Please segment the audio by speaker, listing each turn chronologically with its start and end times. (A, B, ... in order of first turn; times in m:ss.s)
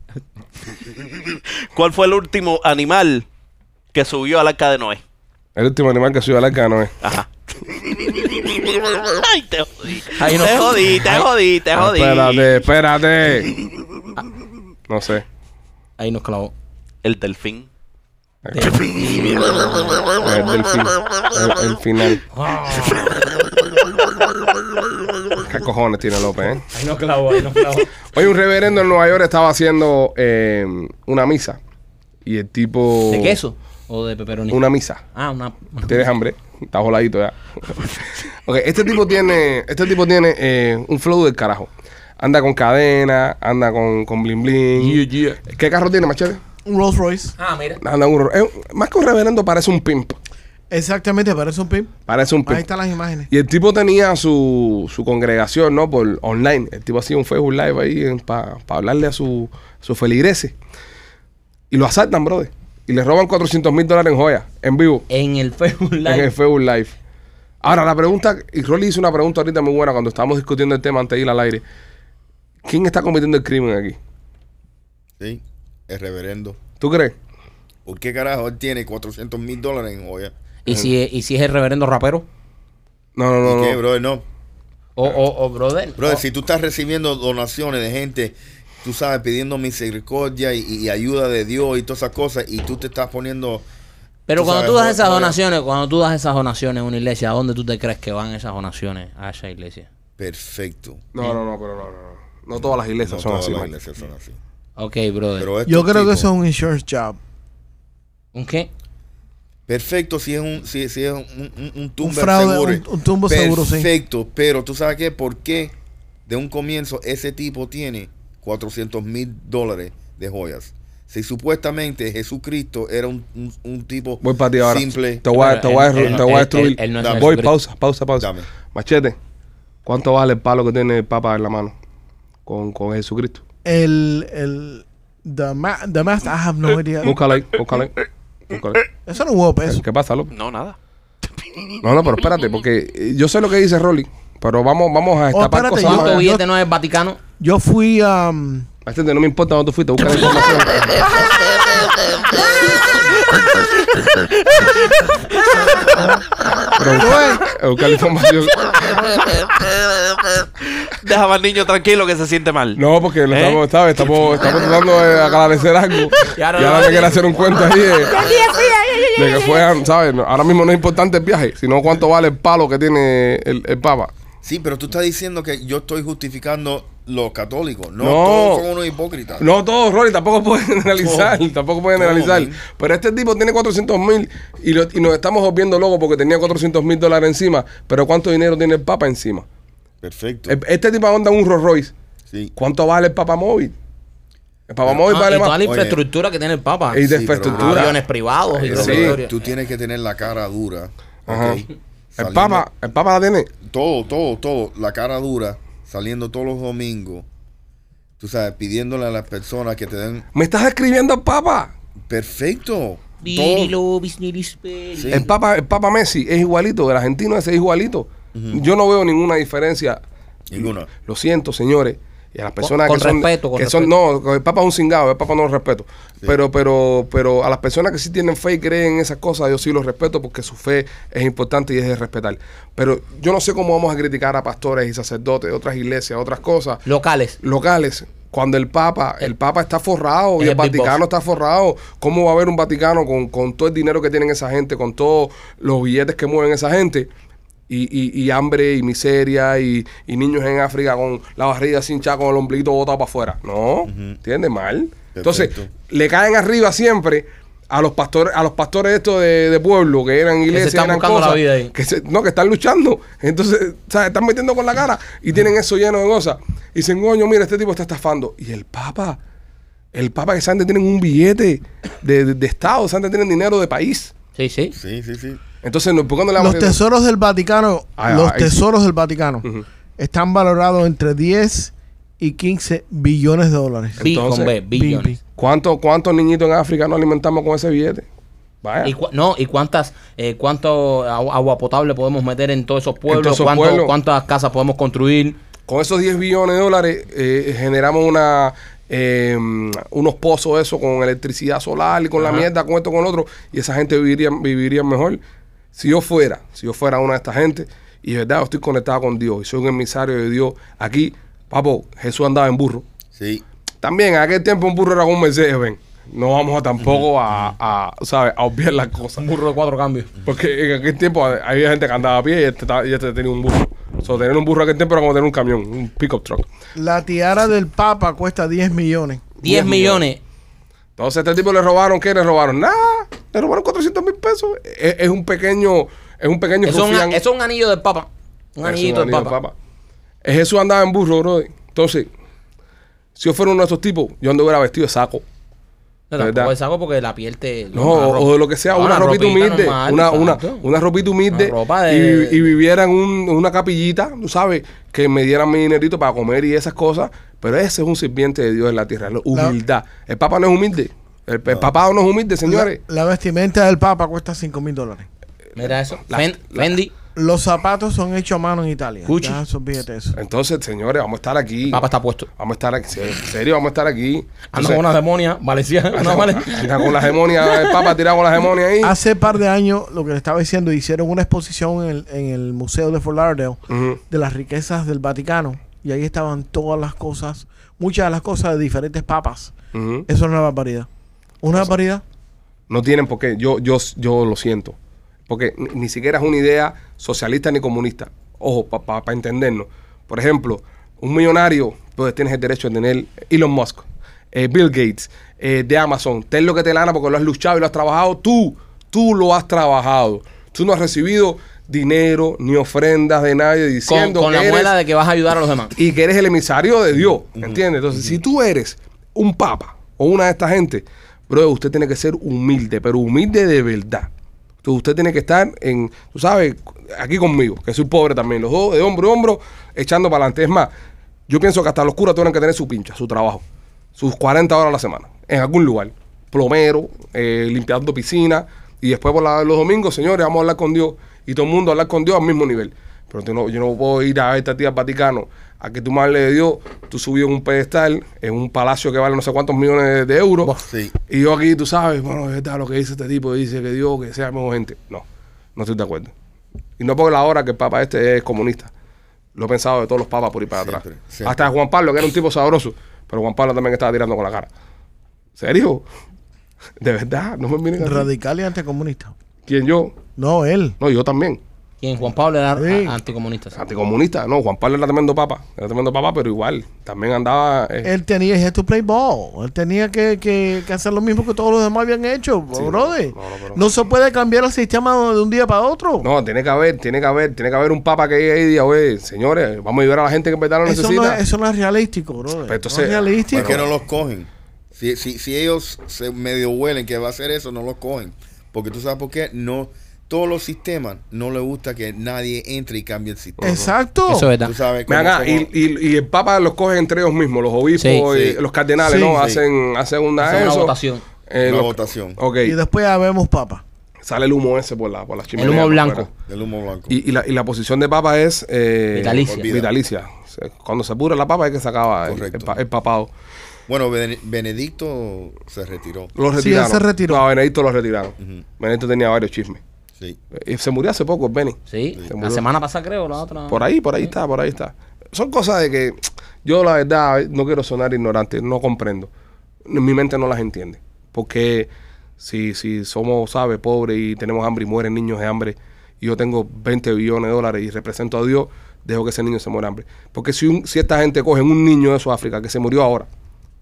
0:01.2-0:03.2 A
0:03.9-0:05.0 A
0:05.6-0:07.0 B
0:07.0-0:12.5 A
0:10.1-0:11.3 C
0:11.7-0:13.6 B
0:14.9-0:15.2 B
0:16.0-0:16.5 C
0:17.0-0:17.7 A
0:18.4-0:18.8 B
0:18.5-0:20.0 C
0:19.0-0:19.5 A
0:20.1-0:22.2 B
0:22.3-0:23.3 C
0:25.4-0:26.6 B
0:26.7-0:27.9 C
0:28.1-0:31.6 B
0:32.2-0:33.4 B
0:33.1-0:34.6 C
0:34.5-0:35.0 B
0:35.1-0:36.0 C
0:35.9-0:41.7 B
0:42.2-0:46.4 B
0:44.7-0:45.4 C
0:46.6-0:47.3 D
0:47.4-0:47.8 C
0:47.8-0:50.2 B
0:50.7-0:51.9 D
0:52.1-0:52.6 B
0:52.5-0:53.3 D
0:53.3-1:00.5 B
1:01.7-1:05.0 B
1:05.1-1:06.3 C
1:06.1-1:06.9 B
1:07.6-1:11.6 B
1:12.6-1:14.0 B
1:15.2-1:16.6 E
1:16.8-1:17.1 B
1:17.8-1:20.3 E
1:20.6-1:22.2 C
1:23.2-1:23.8 B
1:23.4-1:24.2 E
1:25.0-1:26.2 C
1:26.0-1:33.6 E
1:34.3-1:39.9 C
1:34.4-1:35.3 E
1:40.2-1:41.0 E
1:41.1-1:43.7 B
1:43.0-1:44.4 E
1:44.8-1:45.5 C
1:45.4-1:46.3 E
1:45.7-1:47.2 D
1:48.3-1:48.7 C
1:49.7-1:55.7 E
1:52.0-1:53.9 D
1:56.3-2:05.2 E
2:04.2-2:09.2 B
2:05.3-2:07.5 C
2:07.0-2:07.3 E
2:08.2-2:08.5 E
2:09.8-2:11.7 B
2:12.4-2:13.4 B
2:13.6-2:17.2 D
2:17.0-2:18.9 B
2:19.0-2:19.8 D
2:19.7-2:20.3 B
2:20.3-2:20.8 A
2:21.8-2:26.2 B
2:25.3-2:26.4 D
2:25.8-2:27.2 C
2:27.4-2:28.7 D
2:28.8-2:31.1 B
2:33.3-2:35.0 A
2:35.9-2:36.2 D
2:36.6-2:39.2 B
2:37.0-2:37.4 D
2:40.9-2:42.8 A
2:42.8-2:48.2 B
2:43.3-2:43.6 A
2:46.3-2:47.4 C
2:48.1-2:49.6 C
2:49.1-2:54.1 B
2:54.4-2:59.4 E
2:58.0-2:58.6 B
2:59.4-3:09.4 B
3:01.0-3:01.4 E
3:02.0-3:02.6 E
3:10.0-3:10.6 E
3:10.5-3:11.9 B
3:12.6-3:13.7 B
3:14.7-3:15.6 B
3:15.1-3:19.3 C
3:15.6-3:16.0 E
3:16.9-3:18.0 B
3:17.1-3:18.0 E
3:18.5-3:19.2 B
3:18.6-3:22.6 E
3:21.3-3:21.6 B
3:22.2-3:23.5 B
3:23.6-3:27.2 E
3:28.2-3:30.3 E
3:30.3-3:31.7 B
3:32.1-3:33.8 E
3:33.2-3:35.2 C
3:34.9-3:35.3 E
3:35.1-3:40.0 B
3:38.3-3:38.6 E
3:40.5-3:40.9 E
3:40.6-3:56.8 B
3:42.6-3:43.9 C
3:56.8-3:57.4 C
3:57.4-4:07.1 B
4:00.4-4:01.0 C
4:07.7-4:29.2 B
4:13.8-4:14.2 E
4:15.1-4:15.7 E
4:20.5-4:21.7 C
4:29.9-4:34.1 B
4:34.4-4:34.7 C
4:34.7-4:35.4 E
4:35.6-4:36.8 B
4:36.4-4:39.4 D
4:38.0-4:38.6 B
4:40.0-4:44.0 D
4:44.0-4:44.5 B
4:44.0-4:45.2 C
4:44.7-4:45.2 D
4:45.4-4:48.0 B
4:48.6-4:48.9 B
4:48.8-4:55.4 C
4:53.1-4:53.9 B
4:55.7-5:05.2 B
5:02.2-5:02.5 C
5:05.7-5:12.8 B
5:13.1-5:13.4 E
5:13.8-5:19.3 B
5:16.8-5:17.5 E
5:19.2-5:20.1 C
5:20.2-5:26.4 B
5:26.8-5:29.3 D
5:29.4-5:30.2 C
5:29.4-5:30.0 B
5:31.0-5:37.2 B
5:36.6-5:39.3 C
5:38.6-5:39.5 B
5:40.2-5:42.1 B
5:43.2-5:45.2 B
5:46.1-5:50.6 C
5:46.2-5:46.5 B
5:47.7-6:02.8 B
5:51.3-5:52.5 C
6:02.5-6:05.1 D
6:05.6-6:06.9 C
6:06.1-6:06.7 B
6:07.2-6:10.2 D
6:09.0-6:09.4 C
6:10.1-6:11.8 B
6:11.7-6:12.3 C
6:12.4-6:14.8 B
6:14.5-6:17.9 C
6:15.9-6:19.0 B
6:18.8-6:29.5 D
6:23.7-6:24.0 B
6:29.7-6:30.1 B
6:30.1-6:30.9 D
6:31.4-6:32.0 D
6:32.7-6:34.8 B
6:35.3-6:54.7 B
6:53.9-6:55.7 C
6:55.8-7:04.1 B
6:57.3-6:58.2 E
7:04.6-7:10.7 B
7:11.3-7:13.4 B
7:14.0-7:30.5 B
7:30.6-7:31.0 E
7:31.1-7:35.0 B
7:35.6-7:36.1 B
7:36.8-7:38.7 B
7:39.4-7:44.5 B
7:40.5-7:41.4 E
7:45.4-7:45.8 B
7:46.8-7:48.1 B
7:47.8-7:49.1 D
7:49.5-7:49.9 B
7:50.2-7:50.8 D
7:50.8-7:51.4 B
7:51.8-7:53.6 C
7:52.6-7:53.0 D
7:53.5-7:57.9 B
7:57.8-8:06.1 D
8:02.5-8:03.7 B
8:06.0-8:11.2 B
8:10.6-8:13.6 D
8:12.4-8:13.6 B
8:13.3-8:23.5 E
8:23.4-8:23.7 B
8:23.4-8:24.3 D
8:24.1-8:24.5 C
8:24.4-8:25.5 E
8:24.9-8:30.7 B
8:27.8-8:28.0 C
8:28.1-8:28.4 E
8:28.8-8:29.2 D
8:29.1-8:29.4 E
8:30.2-8:31.0 C
8:31.3-8:32.6 B
8:31.4-8:32.2 E
8:32.4-8:33.6 D
8:34.0-8:36.1 B
8:35.4-8:36.1 C
8:36.3-8:37.0 E
8:36.9-8:43.1 B
8:38.9-8:39.5 C
8:39.2-8:39.7 E
8:42.0-8:42.6 E
8:43.7-8:46.1 E
8:46.1-8:49.6 B
8:46.4-8:47.2 D
8:48.2-8:48.4 E
8:50.3-8:52.4 B
8:51.7-8:54.1 C
8:53.5-8:59.1 B
8:59.6-9:13.1 B